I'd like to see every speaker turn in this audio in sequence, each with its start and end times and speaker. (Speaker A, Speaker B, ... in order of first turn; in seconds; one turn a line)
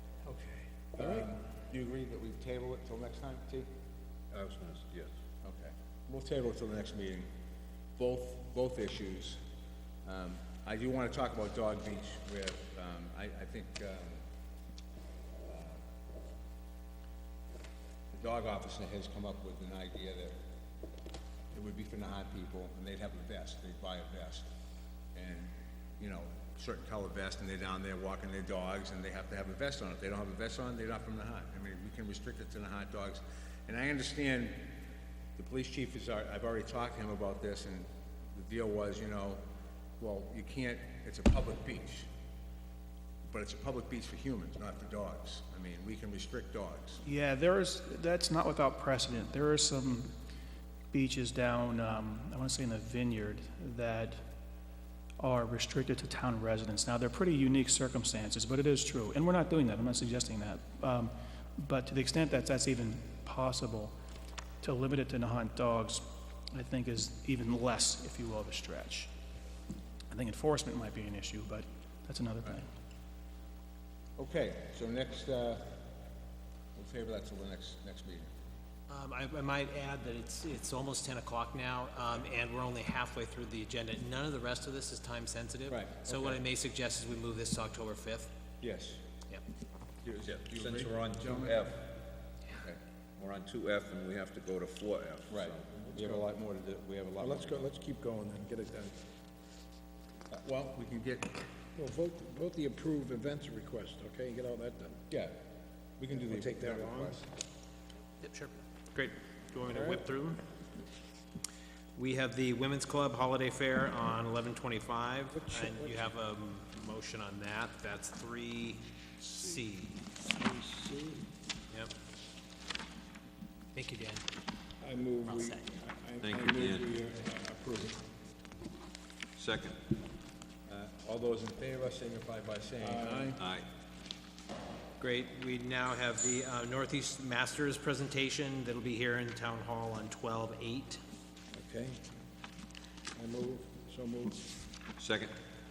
Speaker A: 0.2-1.4
Speaker B: 1.0-3.7
Speaker C: 4.3-5.1
Speaker B: 5.4-7.3
Speaker B: 8.0-9.4
Speaker B: 10.0-14.2
Speaker B: 15.4-15.8
Speaker B: 18.1-20.4
Speaker B: 21.5-24.5
Speaker B: 25.1-34.6
Speaker B: 35.4-39.4
Speaker B: 40.0-42.1
Speaker B: 43.3-47.0
Speaker D: 47.0-50.1
Speaker D: 50.9-54.3
Speaker D: 55.2-63.9
Speaker D: 64.6-69.1
Speaker D: 70.1-72.7
Speaker B: 74.2-75.8
Speaker B: 76.8-78.3
Speaker E: 78.9-88.3
Speaker B: 85.7-86.4
Speaker B: 88.6-89.0
Speaker B: 90.0-91.6
Speaker C: 90.2-91.9
Speaker C: 93.2-95.6
Speaker B: 95.3-97.7
Speaker A: 95.9-96.2
Speaker A: 97.2-99.0
Speaker B: 100.3-101.3
Speaker A: 101.8-105.0
Speaker B: 105.1-105.4
Speaker B: 106.0-107.2
Speaker A: 106.1-107.3
Speaker E: 108.2-110.4
Speaker E: 111.9-120.0
Speaker A: 115.3-116.0
Speaker A: 120.3-121.3
Speaker E: 123.7-124.2
Speaker A: 124.8-128.0
Speaker E: 125.2-125.7
Speaker C: 126.2-126.9
Speaker C: 129.3-129.8
Speaker B: 130.7-133.4
Speaker A: 132.8-133.4
Speaker C: 133.4-133.7
Speaker E: 135.0-141.0
Speaker A: 141.5-142.0
Speaker A: 143.1-144.4
Speaker C: 145.0-145.3